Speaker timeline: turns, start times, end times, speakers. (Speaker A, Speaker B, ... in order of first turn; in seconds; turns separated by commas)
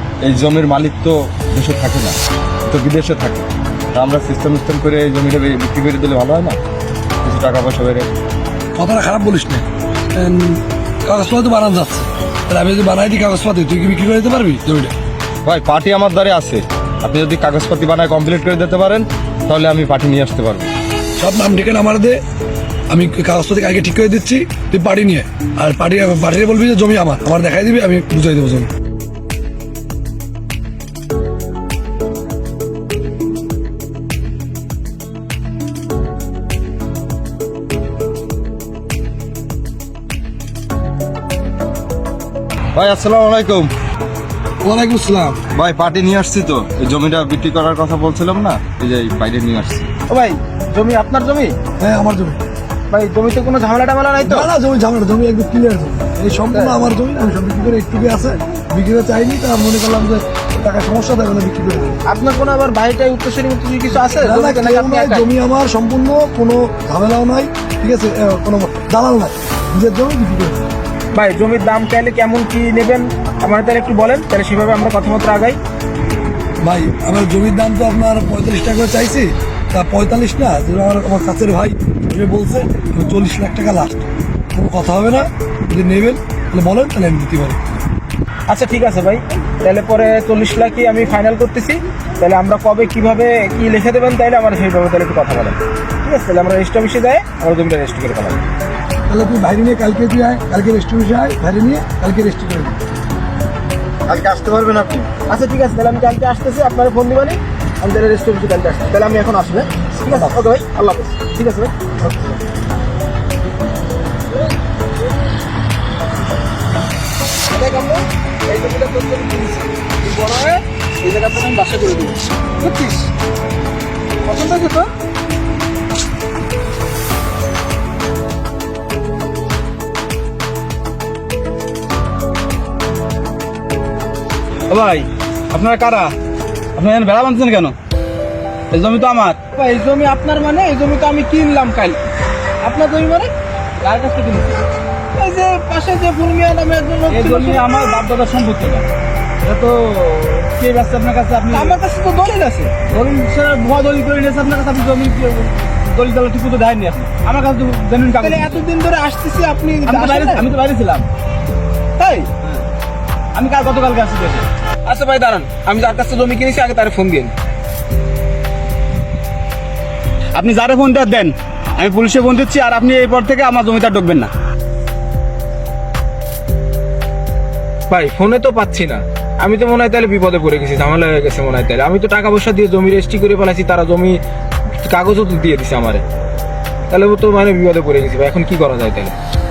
Speaker A: 0.2-2.2, Speaker A: 2.7-6.6, Speaker A: 7.2-8.1, Speaker B: 8.8-14.9, Speaker A: 15.4-20.7, Speaker B: 21.2-22.2, Speaker B: 22.9-28.7, Speaker A: 42.8-43.7, Speaker B: 44.6-45.5, Speaker A: 45.5-49.9, Speaker C: 50.1-51.5, Speaker B: 51.8-52.4, Speaker C: 52.9-54.5, Speaker B: 54.2-62.0, Speaker C: 62.1-65.2, Speaker B: 64.2-70.7, Speaker C: 71.1-75.6, Speaker B: 76.6-87.6, Speaker C: 88.5-98.4, Speaker B: 99.1-102.8, Speaker A: 104.1-105.1, Speaker C: 105.1-112.4, Speaker C: 117.5-123.1, Speaker C: 124.2-124.9, Speaker D: 134.7-136.1, Speaker D: 136.8-137.8, Speaker D: 138.7-139.4, Speaker C: 139.5-142.0, Speaker C: 142.6-143.3, Speaker D: 143.8-144.6, Speaker C: 145.1-147.6, Speaker D: 147.1-148.9, Speaker D: 149.4-151.8, Speaker C: 151.5-152.8, Speaker D: 152.9-158.6, Speaker C: 158.2-160.5, Speaker D: 159.9-161.1, Speaker C: 162.0-162.3, Speaker D: 162.3-162.6, Speaker D: 163.3-164.5, Speaker C: 164.8-167.3, Speaker D: 170.4-174.3, Speaker C: 177.9-184.2, Speaker C: 184.8-186.0, Speaker C: 186.9-189.1